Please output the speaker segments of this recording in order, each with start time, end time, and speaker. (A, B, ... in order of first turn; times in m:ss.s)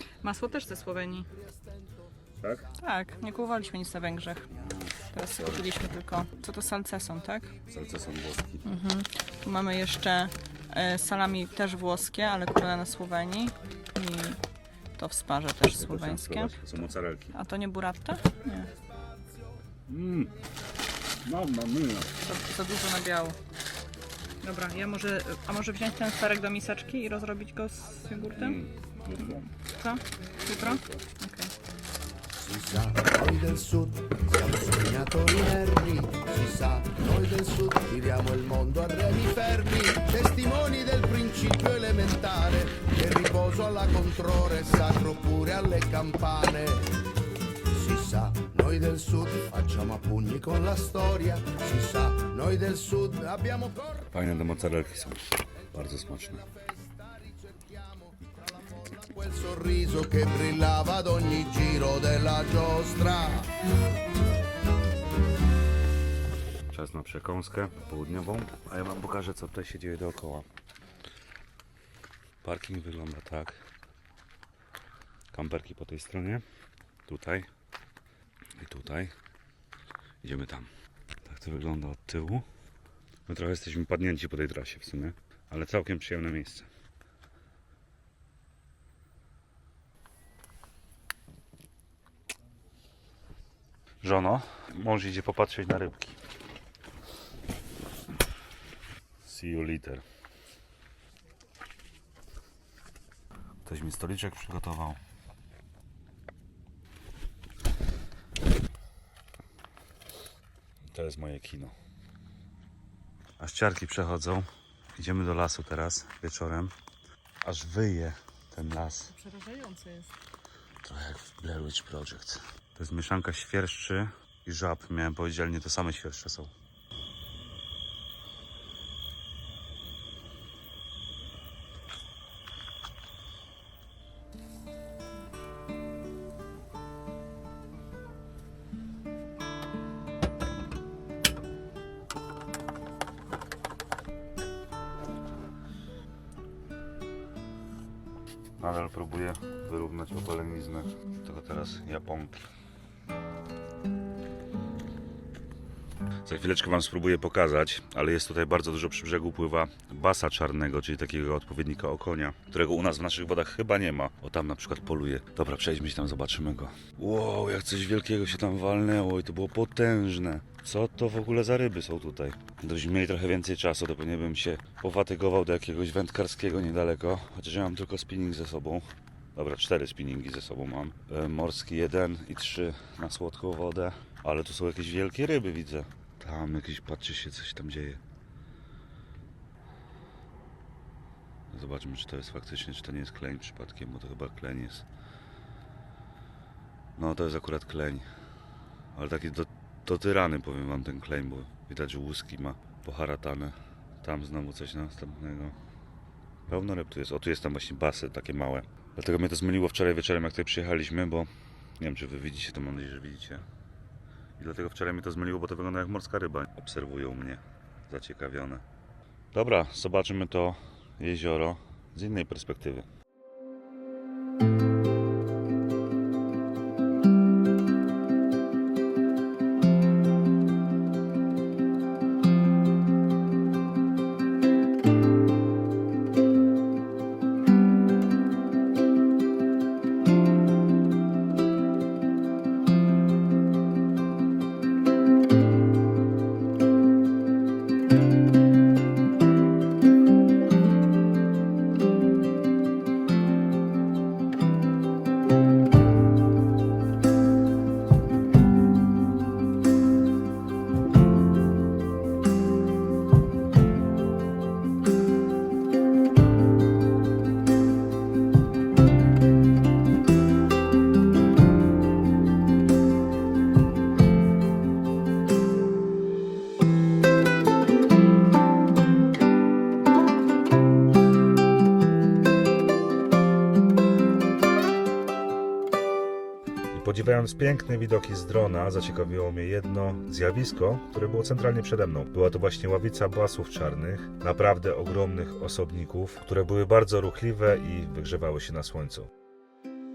0:00.2-0:01.3 A
0:02.4-0:02.7 B
0:02.8-0:04.5 A
0:04.5-0:05.7 B
0:05.1-0:07.5 A
0:07.7-0:08.7 B
0:08.6-0:14.4 A
0:15.0-0:16.6 A
0:15.6-0:17.4 B
0:17.3-0:18.7 A
0:19.9-0:20.3 B
0:21.2-0:22.1 B
0:22.2-0:23.4 A
0:24.4-0:31.5 A
0:28.4-0:29.5 B
0:30.5-0:31.0 B
0:32.4-0:47.0 C
0:47.7-0:54.0 C
0:54.1-0:56.5 B
0:58.9-1:03.5 C
1:06.7-1:10.5 B
1:12.4-1:13.6 B
1:15.3-1:16.4 B
1:17.1-1:17.5 B
1:18.6-1:19.1 B
1:20.2-1:20.7 B
1:21.2-1:22.4 B
1:23.3-1:26.7 B
1:34.0-1:36.2 B
1:39.2-1:40.0 B
1:43.6-1:45.0 B
1:50.9-1:51.7 B
1:53.4-1:56.7 B
1:57.4-1:59.1 B
1:59.1-2:00.1 A
2:00.8-2:06.5 B
2:28.6-2:32.4 B
2:36.2-3:08.0 B
3:11.5-3:14.8 B
3:17.0-3:18.1 B
3:18.9-3:25.6 B
3:26.5-3:33.4 B
3:34.4-3:38.6 B
3:39.3-3:42.9 B
4:46.7-4:59.1 B